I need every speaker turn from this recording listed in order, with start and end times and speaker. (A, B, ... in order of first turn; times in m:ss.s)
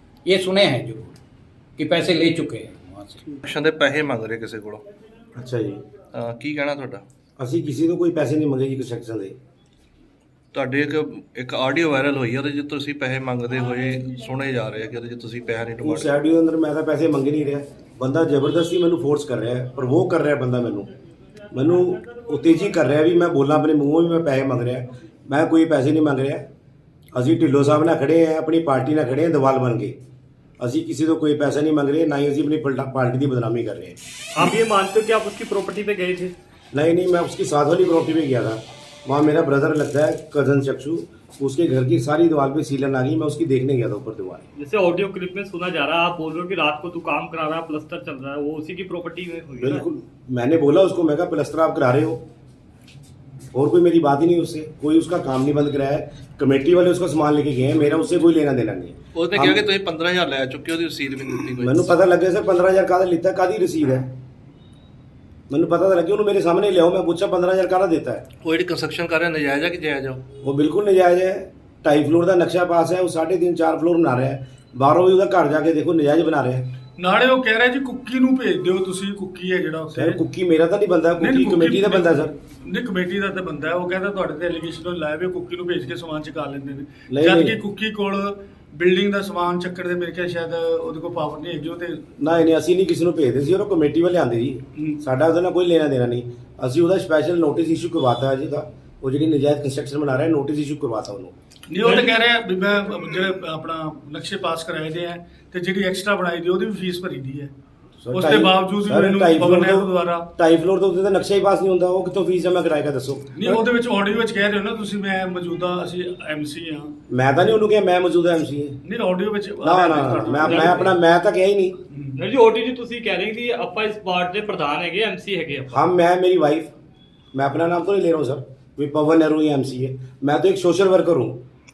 0:00.2-0:01.2 A
0:01.8-0:03.4 A
0:03.4-0:04.8 B
0:05.4-0:05.8 C
0:06.1-0:07.0 B
0:07.4-0:09.4 C
0:10.5-0:16.1 B
0:15.8-0:20.9 C
0:21.5-0:26.4 C
0:27.1-0:30.0 C
0:30.6-0:34.0 C
0:34.3-0:36.3 D
0:36.7-0:44.4 C
0:44.6-0:49.8 D
0:49.6-0:52.2 C
0:53.5-0:59.6 C
0:59.1-1:01.9 B
1:01.6-1:04.1 C
1:05.5-1:08.2 C
1:08.4-1:10.2 B
1:10.4-1:16.6 C
1:17.0-1:20.2 E
1:19.9-1:22.3 C
1:21.2-1:32.0 E
1:27.1-1:27.6 C
1:32.2-1:41.3 C
1:41.7-1:47.5 E
1:41.8-1:42.2 D
1:48.0-1:53.3 C
1:48.1-1:50.2 E
1:53.4-1:56.9 E
1:57.1-1:58.8 C
1:58.8-2:00.8 E
1:59.6-2:01.8 C
2:00.4-2:00.8 D
2:01.9-2:02.2 E
2:02.2-2:05.8 D
2:05.7-2:06.7 C
2:07.3-2:11.4 C